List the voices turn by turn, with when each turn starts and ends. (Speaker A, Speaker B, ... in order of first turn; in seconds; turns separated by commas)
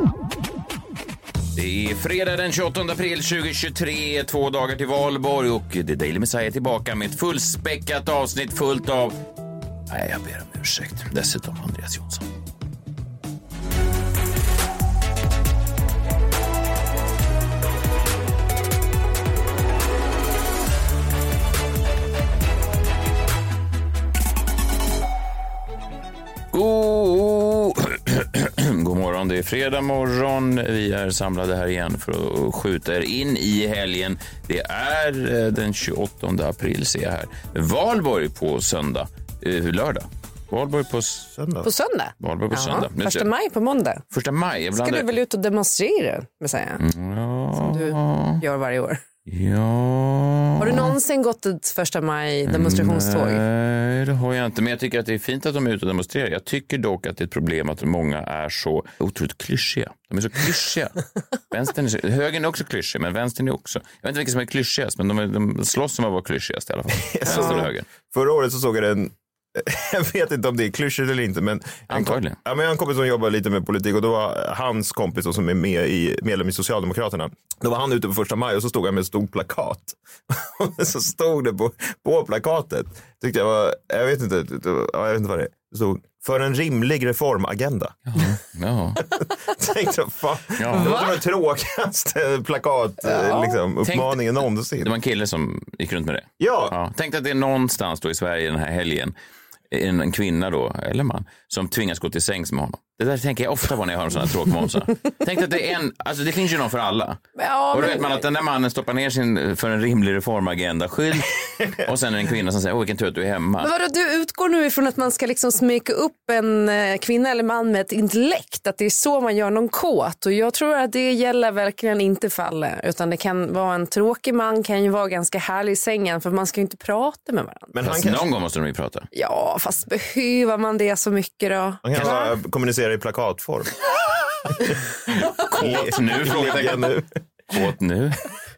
Speaker A: 1.5-9.2, Speaker A: 9.9-12.3, Speaker A: 26.5-41.3, Speaker B: 41.3-41.7, Speaker C: 41.6-44.0, Speaker A: 42.2-43.3, Speaker A: 44.1-45.1, Speaker C: 44.7-46.8, Speaker A: 46.8-48.4, Speaker C: 47.5-49.0, Speaker A: 49.3-50.9, Speaker C: 50.6-53.4, Speaker A: 52.5-61.0, Speaker A: 61.5-67.8, Speaker B: 67.0-88.0, Speaker C: 67.3-67.6, Speaker A: 71.9-72.4, Speaker A: 88.1-89.0, Speaker B: 89.2-94.9, Speaker A: 90.6-90.9, Speaker C: 90.7-91.1, Speaker C: 93.0-93.6, Speaker A: 93.8-94.2, Speaker A: 94.8-99.1, Speaker B: 96.4-96.8, Speaker A: 99.7-113.7, Speaker C: 107.4-108.2, Speaker C: 113.6-127.7, Speaker B: 127.7-128.3, Speaker A: 127.8-129.1, Speaker C: 129.1-132.3, Speaker B: 131.8-133.7, Speaker A: 135.1-138.2, Speaker B: 135.5-137.1